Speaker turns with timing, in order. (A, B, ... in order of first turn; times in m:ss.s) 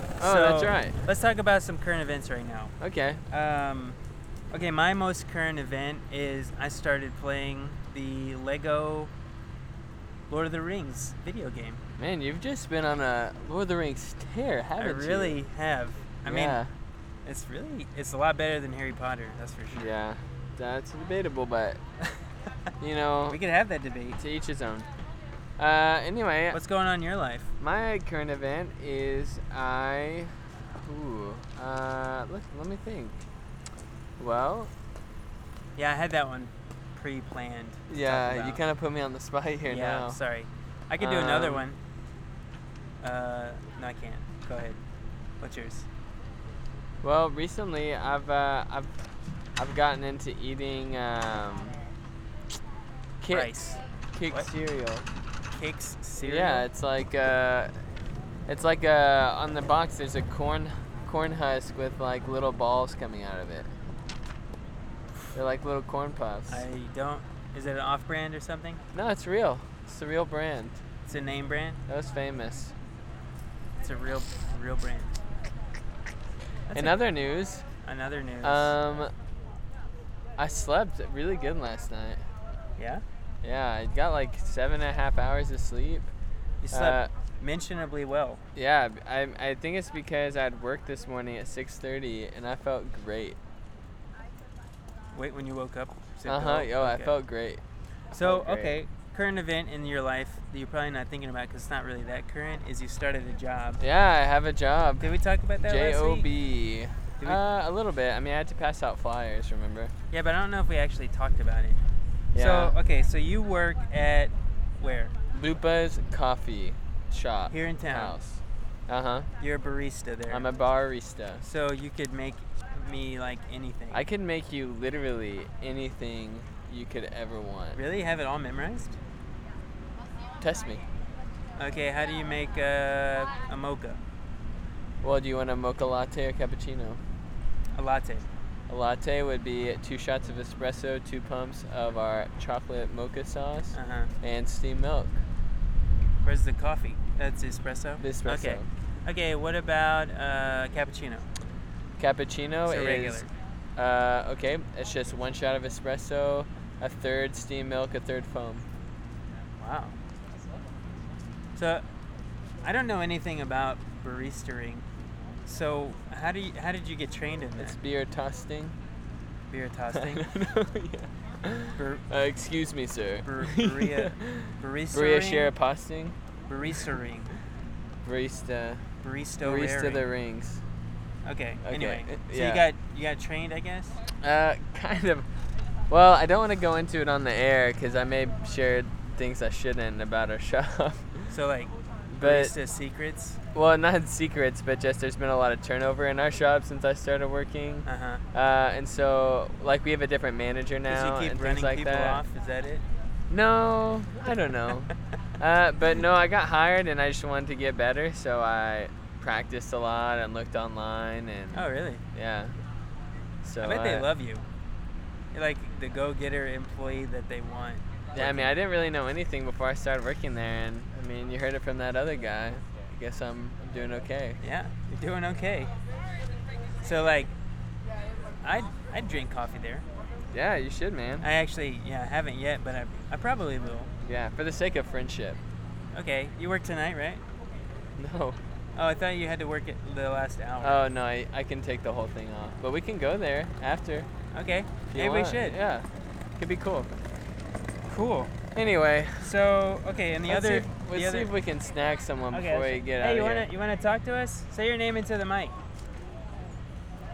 0:00.2-0:01.0 A
0:00.2-0:02.7 B
0:02.8-0:03.2 A
0:03.3-0:04.0 B
0:04.5-0:09.1 B
0:10.3-0:11.8 B
0:12.0-0:15.4 A
0:14.8-0:16.6 B
0:16.2-0:16.7 A
0:17.2-0:19.9 B
0:19.7-0:21.8 A
0:22.8-0:23.4 A
0:23.3-0:24.2 B
0:24.2-0:24.8 A
0:25.6-0:26.6 A
0:26.5-0:27.5 B
0:27.6-0:33.2 A
0:34.2-0:34.7 A
0:35.8-0:38.6 B
0:37.9-0:40.2 A
0:39.7-0:41.8 B
0:41.0-0:41.7 A
0:43.0-0:44.8 B
0:45.4-0:45.8 B
0:47.0-0:48.9 A
0:49.6-0:51.8 A
0:53.2-0:55.0 A
0:53.3-0:53.8 B
0:55.5-0:56.6 B
0:56.2-0:57.7 A
0:58.5-1:03.7 A
1:05.3-1:06.6 A
1:06.5-1:08.8 B
1:08.9-1:10.8 A
1:11.1-1:11.8 B
1:11.9-1:12.7 A
1:13.8-1:15.1 B
1:16.7-1:17.0 B
1:16.7-1:17.6 A
1:17.8-1:18.7 B
1:18.4-1:19.1 A
1:20.4-1:22.2 A
1:22.8-1:23.0 B
1:23.4-1:26.1 A
1:26.6-1:28.4 B
1:26.7-1:27.1 A
1:28.5-1:33.4 A
1:35.1-1:37.1 B
1:36.2-1:37.6 A
1:38.1-1:43.8 B
1:38.2-1:38.8 A
1:43.8-1:49.9 A
1:45.0-1:46.3 B
1:50.1-1:51.8 B
1:52.3-1:52.8 A
1:52.3-1:55.2 B
1:55.3-1:59.3 A
1:57.5-1:58.1 B
1:59.4-2:00.5 B
2:00.3-2:01.4 A
2:01.4-2:04.0 B
2:03.9-2:07.8 A
2:07.7-2:09.0 B
2:10.4-2:10.8 A
2:11.6-2:14.0 B
2:15.0-2:17.0 A
2:17.7-2:18.3 B
2:18.7-2:25.2 A
2:23.7-2:24.1 B
2:26.2-2:31.2 B
2:28.0-2:28.7 A
2:32.0-2:33.2 A
2:32.6-2:33.3 B
2:33.8-2:38.6 A
2:39.6-2:40.0 B
2:41.5-2:41.8 B
2:42.6-2:44.8 B
2:45.4-2:47.8 B
2:47.6-2:48.7 A
2:49.5-2:50.2 B
2:49.9-2:56.1 A
2:51.8-2:52.0 B
2:53.2-2:55.5 B
2:56.5-2:57.3 B
2:58.0-2:58.8 A
2:59.0-3:00.0 B
2:59.4-3:00.6 A
3:01.2-3:04.0 B
3:01.6-3:02.6 A
3:04.2-3:05.2 A
3:05.9-3:11.3 A
3:11.3-3:13.4 B
3:12.1-3:12.5 A
3:13.5-3:22.2 A
3:17.8-3:18.2 B
3:20.9-3:22.8 B
3:23.3-3:32.5 A
3:31.5-3:32.0 B
3:33.4-3:34.1 A
3:33.6-3:34.4 B
3:35.3-3:38.5 B
3:38.1-3:44.4 A
3:44.4-3:45.7 B
3:46.8-3:47.3 B
3:48.4-3:49.8 B
3:50.3-3:51.3 A
3:51.2-3:53.9 B
3:54.0-3:55.4 A
3:55.9-3:57.2 B
3:58.0-3:58.4 A
3:58.7-4:00.8 B
4:00.6-4:04.1 A
4:04.3-4:05.6 B
4:04.9-4:05.9 A
4:06.4-4:06.9 A
4:07.9-4:08.4 B
4:08.5-4:09.4 A
4:09.2-4:11.3 B
4:10.3-4:13.5 A
4:12.3-4:15.6 B